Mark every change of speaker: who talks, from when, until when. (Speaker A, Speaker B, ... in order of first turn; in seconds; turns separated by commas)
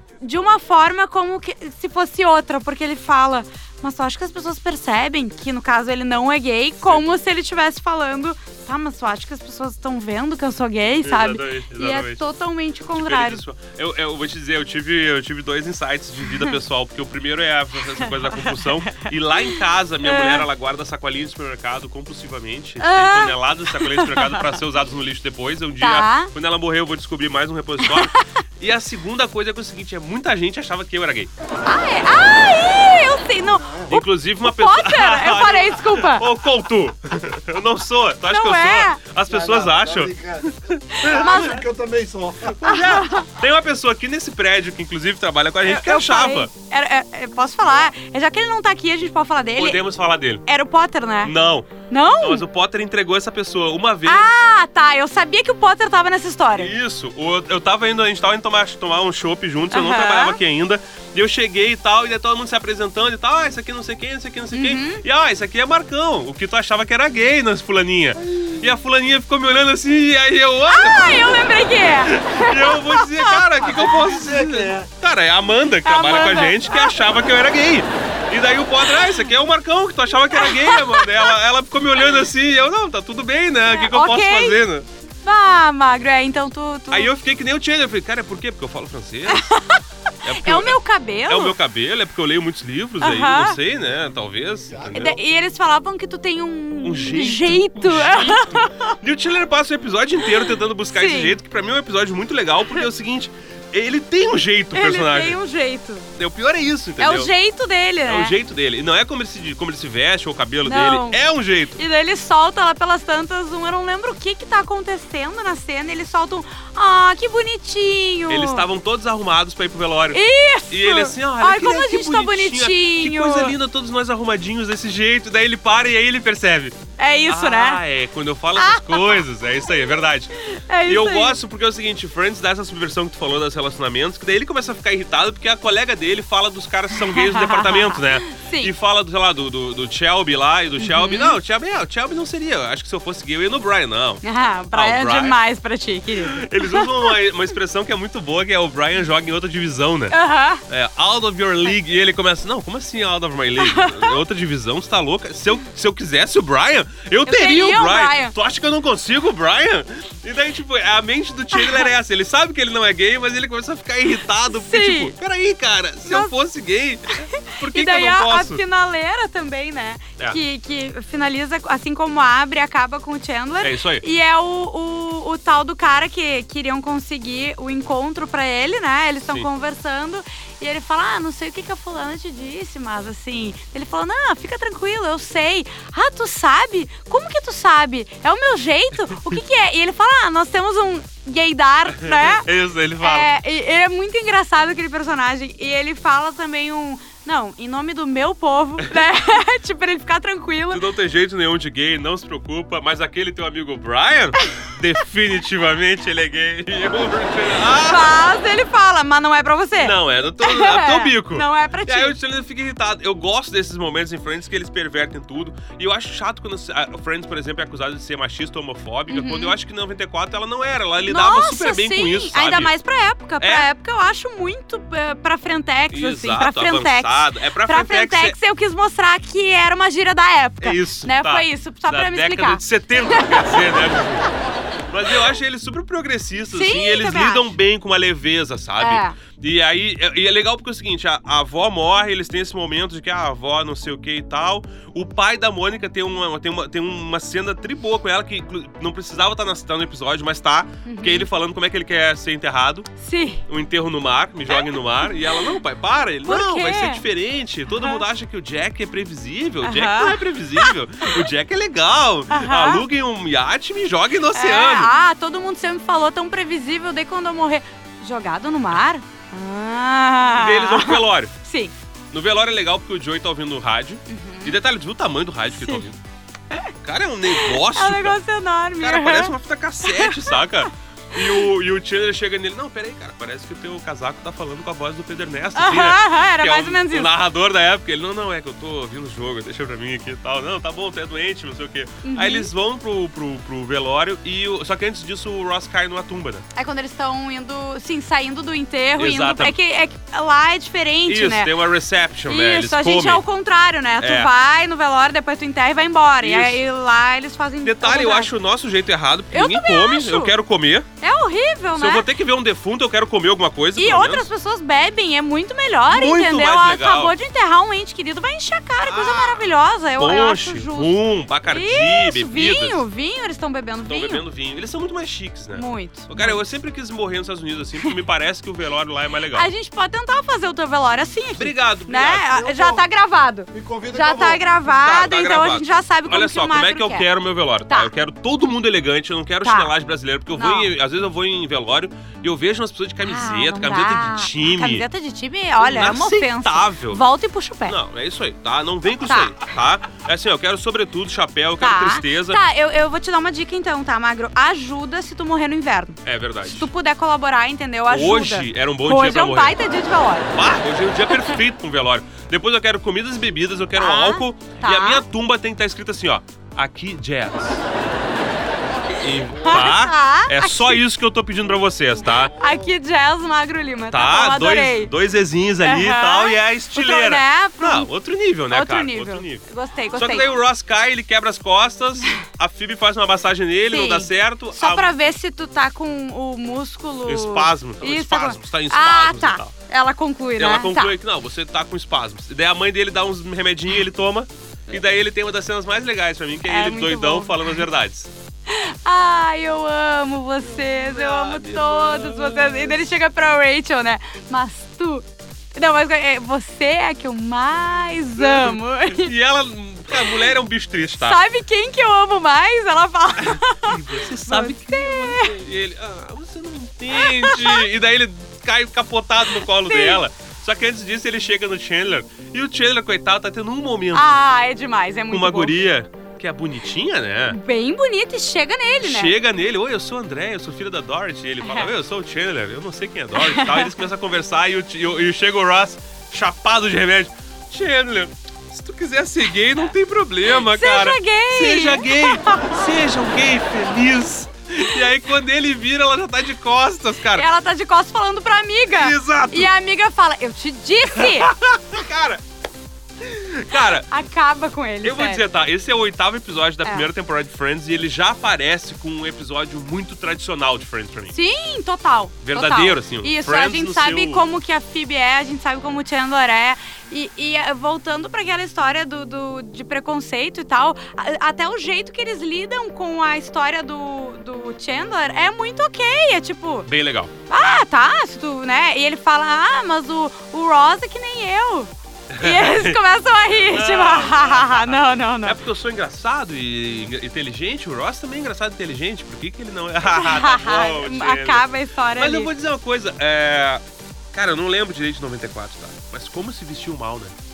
Speaker A: 0.2-13.4, Speaker B: 11.0-12.2, Speaker B: 12.9-31.3, Speaker A: 18.3-20.5, Speaker A: 22.8-24.5, Speaker A: 25.8-26.3, Speaker A: 27.8-28.2, Speaker A: 31.7-36.3, Speaker B: 33.9-41.6, Speaker A: 38.2-39.0, Speaker C: 39.3-43.0, Speaker A: 40.9-41.6, Speaker B: 42.5-46.5, Speaker A: 42.6-43.3, Speaker A: 45.6-49.8, Speaker B: 49.6-50.4, Speaker A: 50.5-51.3, Speaker B: 51.2-54.3, Speaker A: 51.9-52.4, Speaker A: 54.1-56.7, Speaker B: 56.5-71.4, Speaker A: 59.7-60.4, Speaker A: 64.5-65.0, Speaker A: 70.7-73.3, Speaker B: 72.0-84.9, Speaker C: 73.6-74.9, Speaker A: 75.8-77.0, Speaker A: 80.3-81.3, Speaker A: 83.7-84.6, Speaker A: 85.2-87.1, Speaker B: 86.9-89.6, Speaker A: 89.3-91.5, Speaker B: 90.2-95.2, Speaker A: 93.0-93.6, Speaker A: 94.9-99.0, Speaker B: 96.8-105.4, Speaker A: 100.3-101.4, Speaker A: 104.7-106.1, Speaker B: 106.2-107.3, Speaker A: 107.0-108.4, Speaker B: 108.1-111.8, Speaker A: 110.7-111.2, Speaker A: 111.8-118.7, Speaker B: 118.3-130.3, Speaker A: 120.1-123.5, Speaker A: 127.0-127.8, Speaker A: 128.6-129.2, Speaker A: 130.4-131.4, Speaker B: 130.9-145.4, Speaker A: 137.1-138.7, Speaker A: 140.8-141.4, Speaker A: 144.2-147.2, Speaker B: 146.3-150.2, Speaker A: 150.1-150.6, Speaker B: 150.7-168.6, Speaker A: 153.6-154.2, Speaker A: 157.2-158.3, Speaker A: 161.6-161.9, Speaker A: 164.5-165.1, Speaker A: 166.1-166.3, Speaker A: 167.3-192.5, Speaker B: 173.6-174.0, Speaker B: 191.9-193.3, Speaker A: 193.0-200.9, Speaker B: 200.7-208.1, Speaker A: 207.7-212.2, Speaker B: 209.8-222.7, Speaker A: 219.1-219.6, Speaker A: 221.1-233.8, Speaker B: 223.4-223.7, Speaker B: 225.9-228.4, Speaker B: 230.6-234.3, Speaker B: 234.9-252.9, Speaker A: 236.5-237.5, Speaker A: 238.8-239.2, Speaker A: 250.8-251.3, Speaker A: 253.0-253.4, Speaker B: 253.5-264.9, Speaker A: 254.5-255.6, Speaker A: 256.3-257.1, Speaker A: 259.6-260.7, Speaker A: 262.3-262.8, Speaker A: 264.3-271.7, Speaker B: 270.4-271.3, Speaker B: 272.1-276.0, Speaker A: 274.1-274.6, Speaker A: 275.6-275.8, Speaker B: 276.8-278.2, Speaker A: 277.3-280.4, Speaker B: 278.8-296.4, Speaker A: 281.2-281.4, Speaker A: 285.6-287.1, Speaker A: 292.0-292.5, Speaker A: 296.6-301.5, Speaker B: 299.0-299.6, Speaker B: 301.1-303.2, Speaker A: 302.3-308.3, Speaker B: 304.0-304.3, Speaker B: 306.2-306.6, Speaker B: 307.6-310.9, Speaker A: 309.3-310.4, Speaker A: 311.0-312.1, Speaker B: 311.8-314.3, Speaker A: 313.8-324.2, Speaker B: 315.9-317.1, Speaker B: 318.8-322.8, Speaker B: 323.9-329.5, Speaker A: 325.6-326.4, Speaker A: 329.3-337.1, Speaker B: 331.4-332.3, Speaker C: 332.3-332.9, Speaker C: 333.5-334.5, Speaker B: 334.7-344.9, Speaker A: 339.4-339.7, Speaker A: 340.4-340.7, Speaker A: 343.0-347.8, Speaker B: 345.6-347.0, Speaker B: 347.7-352.4, Speaker A: 349.1-349.4, Speaker A: 351.6-360.3, Speaker B: 356.1-356.7, Speaker B: 357.9-359.6, Speaker B: 360.3-367.7, Speaker A: 363.8-365.0, Speaker B: 368.9-372.3, Speaker A: 369.4-370.8, Speaker A: 372.4-374.9, Speaker B: 373.9-379.4, Speaker A: 375.6-377.9, Speaker A: 378.5-380.3, Speaker B: 379.9-384.9, Speaker A: 383.7-390.9, Speaker B: 387.1-389.5, Speaker B: 390.4-398.1, Speaker A: 396.5-397.6, Speaker A: 398.5-409.1, Speaker B: 400.8-402.9, Speaker B: 408.2-411.2, Speaker A: 409.9-410.2, Speaker A: 411.0-415.4, Speaker B: 413.2-424.2, Speaker A: 416.9-417.7, Speaker A: 419.6-420.0, Speaker A: 423.9-425.5, Speaker B: 425.1-427.4, Speaker A: 427.3-429.1, Speaker B: 428.8-447.3, Speaker A: 431.4-431.7, Speaker A: 433.2-433.7, Speaker A: 440.3-442.7, Speaker A: 447.1-451.3, Speaker B: 448.7-449.5, Speaker B: 450.9-452.2, Speaker B: 453.0-453.9, Speaker A: 453.6-455.2, Speaker B: 454.8-461.1, Speaker A: 461.1-476.7, Speaker B: 462.2-464.2, Speaker B: 476.7-477.1, Speaker A: 477.3-485.4, Speaker B: 482.1-497.1, Speaker A: 489.8-492.3